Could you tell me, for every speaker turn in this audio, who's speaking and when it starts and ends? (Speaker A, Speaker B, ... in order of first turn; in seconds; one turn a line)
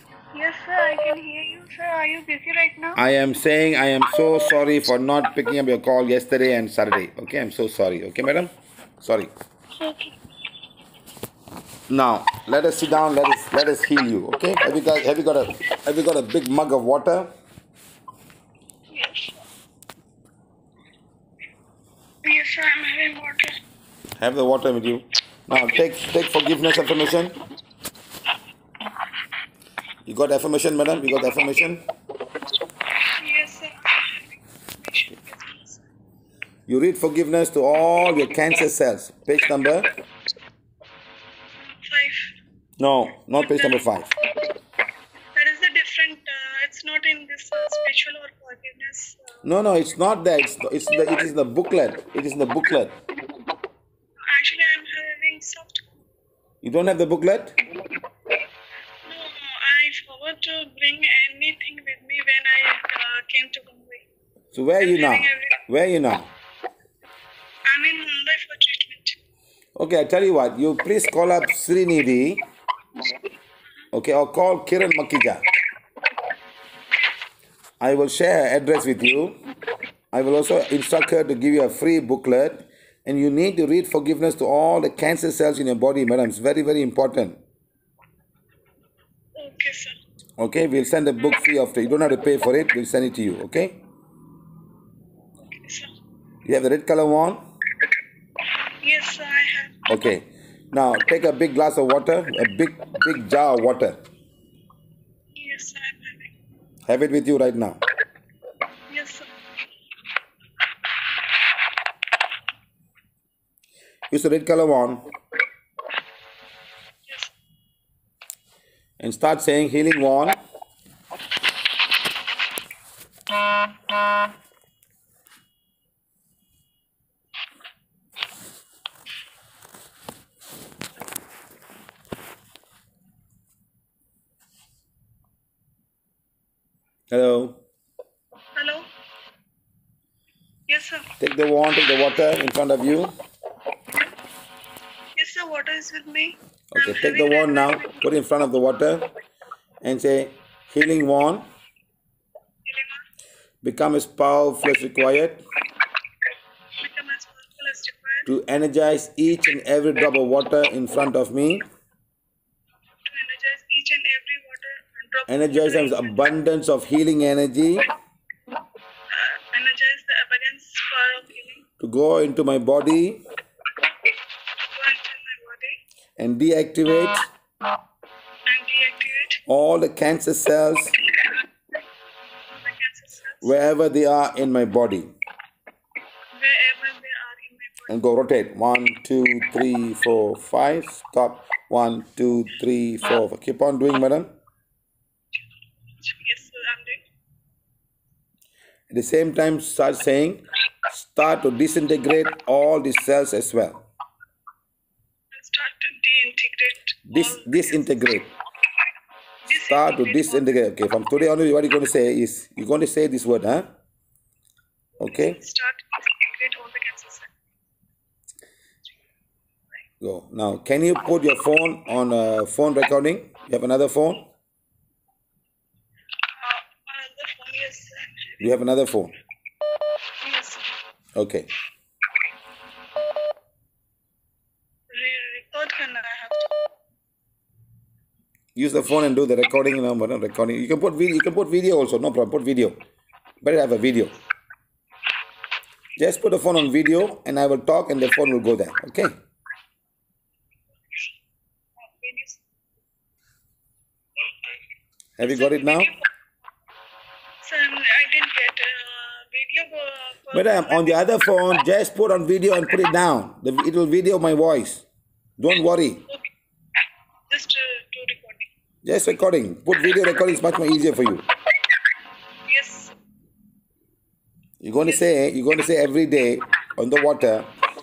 Speaker A: 0.3-3.0
Speaker B: 3.0-9.3
Speaker A: 9.8-10.2
Speaker B: 11.9-17.3
Speaker A: 18.9-19.4
Speaker A: 22.2-23.5
Speaker B: 24.2-27.4
Speaker B: 30.1-31.8
Speaker A: 33.2-35.8
Speaker B: 36.7-39.9
Speaker A: 41.6-42.3
Speaker B: 42.8-44.1
Speaker A: 43.4-43.8
Speaker A: 45.3-49.4
Speaker B: 49.4-53.0
Speaker A: 54.3-55.9
Speaker B: 56.6-57.6
Speaker A: 59.0-64.0
Speaker B: 64.5-66.3
Speaker A: 64.8-65.6
Speaker A: 67.7-69.2
Speaker B: 69.8-72.4
Speaker B: 73.9-75.4
Speaker B: 77.8-79.3
Speaker B: 80.1-87.4
Speaker A: 89.3-89.9
Speaker B: 90.4-93.8
Speaker A: 95.4-95.9
Speaker B: 96.4-97.4
Speaker A: 98.8-99.8
Speaker B: 99.9-104.0
Speaker A: 105.3-106.3
Speaker B: 106.9-107.8
Speaker A: 108.9-109.3
Speaker B: 114.1-115.1
Speaker A: 117.1-117.3
Speaker B: 119.0-120.4
Speaker B: 137.1-137.6
Speaker A: 138.5-138.9
Speaker A: 140.7-141.1
Speaker B: 141.2-143.1
Speaker A: 145.2-148.0
Speaker B: 146.7-149.1
Speaker B: 149.8-151.5
Speaker A: 152.7-153.0
Speaker B: 153.6-155.4
Speaker A: 156.8-158.3
Speaker B: 158.3-161.7
Speaker A: 163.0-166.2
Speaker B: 165.3-167.9
Speaker A: 169.1-171.6
Speaker B: 171.8-173.2
Speaker A: 174.7-175.8
Speaker B: 176.2-177.3
Speaker A: 178.5-179.4
Speaker B: 179.5-181.0
Speaker A: 182.5-183.6
Speaker B: 183.4-185.1
Speaker A: 186.3-187.9
Speaker B: 187.9-194.3
Speaker A: 196.0-197.0
Speaker B: 198.9-203.8
Speaker A: 205.3-208.1
Speaker B: 207.1-208.3
Speaker A: 209.4-210.6
Speaker B: 209.5-213.7
Speaker B: 215.0-215.4
Speaker A: 215.0-217.3
Speaker B: 220.0-224.3
Speaker A: 226.4-228.4
Speaker B: 228.4-229.1
Speaker A: 230.2-230.6
Speaker B: 231.1-231.5
Speaker A: 234.9-236.6
Speaker B: 238.5-242.8
Speaker B: 243.4-244.2
Speaker B: 246.0-249.2
Speaker A: 251.8-252.4
Speaker B: 255.2-255.9
Speaker A: 255.2-255.9
Speaker A: 257.4-261.0
Speaker B: 260.3-264.9
Speaker B: 265.4-266.0
Speaker A: 267.3-268.5
Speaker B: 268.8-271.3
Speaker A: 272.5-272.9
Speaker B: 274.6-277.5
Speaker A: 274.8-275.1